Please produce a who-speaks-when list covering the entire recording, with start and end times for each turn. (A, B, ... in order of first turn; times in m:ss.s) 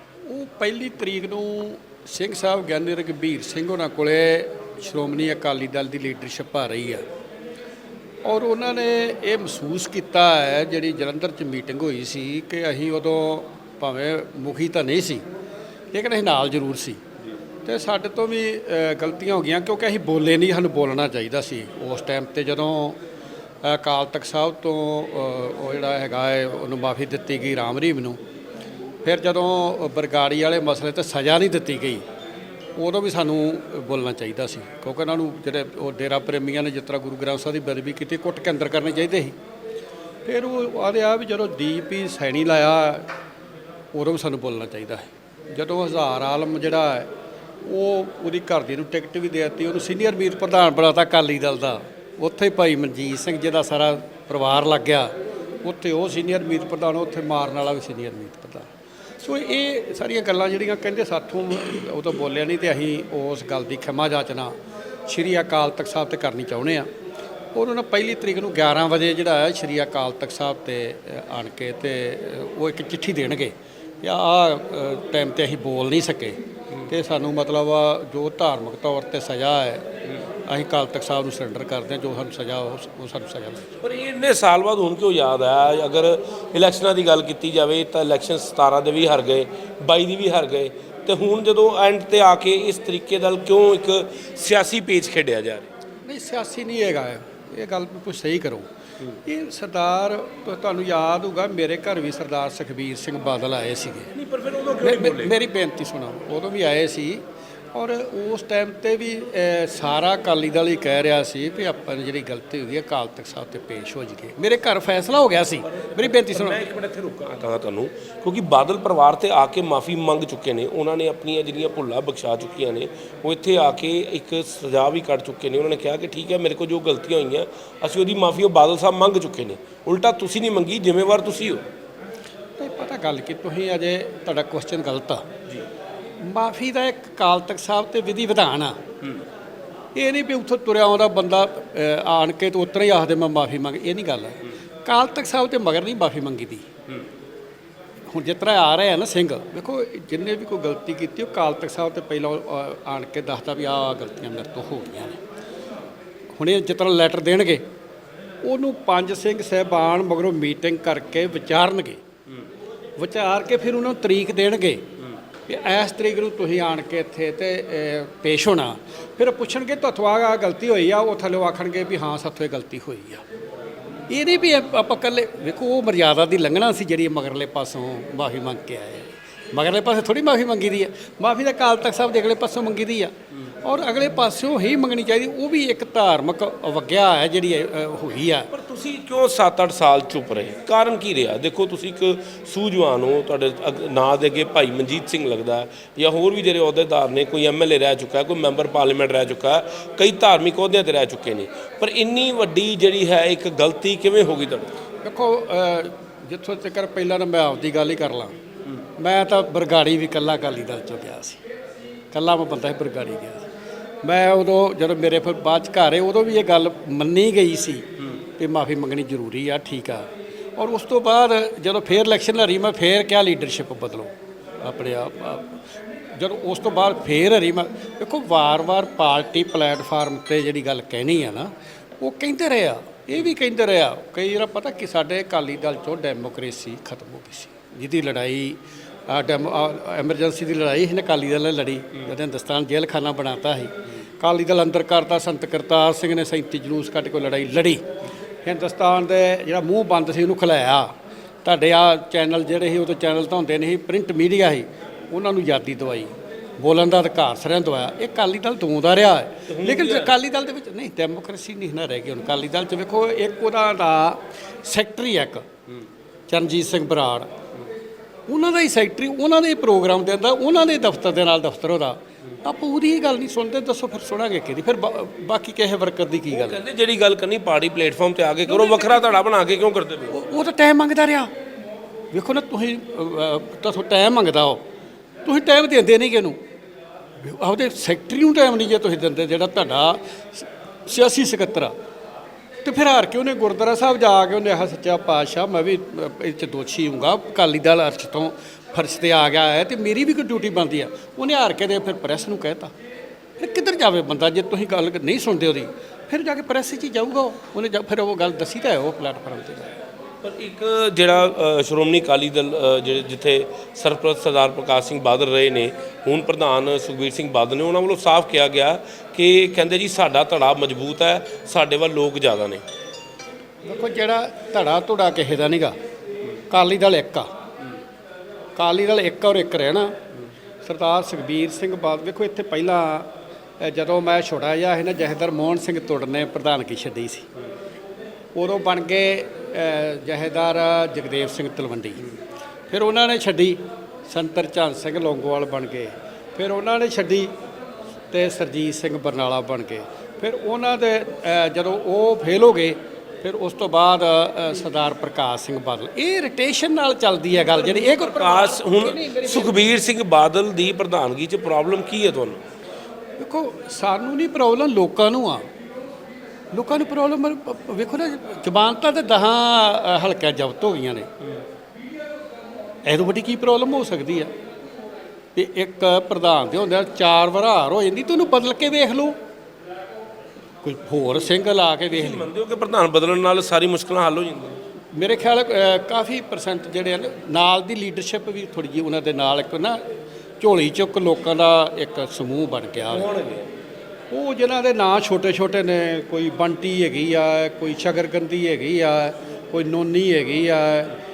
0:00.3-0:07.0 A
0:08.2-0:15.2 A
0:15.9-0:17.0 A
0:17.6-0:23.0 A
0:23.6-0:28.2 A
0:29.0-0:32.0 A
0:32.8-0:39.4 A
0:40.2-0:43.1 A
0:43.9-0:47.1 A
0:47.6-0:55.1 A
0:55.6-0:58.7 A
0:59.2-1:04.5 A
1:05.0-1:06.9 A
1:07.5-1:16.4 A
1:16.9-1:19.9 A
1:20.4-1:23.8 A
1:23.8-1:35.7 B
1:36.1-1:38.7 A
1:39.2-1:44.1 A
1:44.1-1:45.3 B
1:44.8-1:56.6 A
1:55.6-2:11.7 B
2:12.6-2:15.2 A
2:16.2-2:18.8 A
2:19.9-2:26.7 A
2:28.1-2:35.2 A
2:36.3-2:37.6 A
2:38.4-2:42.0 A
2:43.0-2:44.8 A
2:45.5-2:53.2 A
2:54.1-3:03.1 A
3:03.6-3:08.5 A
3:08.5-3:24.7 B
3:25.0-3:28.4 A
3:29.0-3:31.4 A
3:32.1-3:33.5 A
3:34.0-3:45.6 A
3:46.2-4:07.8 A
4:08.4-4:10.9 A
4:11.4-4:25.4 A
4:19.5-4:20.1 B
4:26.3-4:27.3 A
4:28.3-4:36.6 A
4:36.3-4:40.1 B
4:38.5-4:39.1 A
4:40.1-4:41.3 A
4:42.1-4:44.6 A
4:45.2-4:46.4 A
4:47.2-4:51.7 A
4:52.6-5:02.7 A
5:03.4-5:09.7 A
5:10.2-5:22.6 B
5:23.6-5:25.7 A
5:26.5-5:27.3 A
5:28.6-5:30.0 A
5:30.6-5:37.3 A
5:38.3-5:42.0 A
5:42.7-5:47.3 A
5:48.1-5:59.7 A
5:57.5-6:02.4 B
6:03.2-6:05.5 A
6:06.5-6:11.1 A
6:12.8-6:14.3 A
6:15.3-6:19.2 A
6:20.6-6:22.3 A
6:21.9-6:24.6 B
6:24.9-6:29.8 A
6:30.4-6:33.1 A
6:32.9-6:33.5 B
6:34.1-6:41.0 A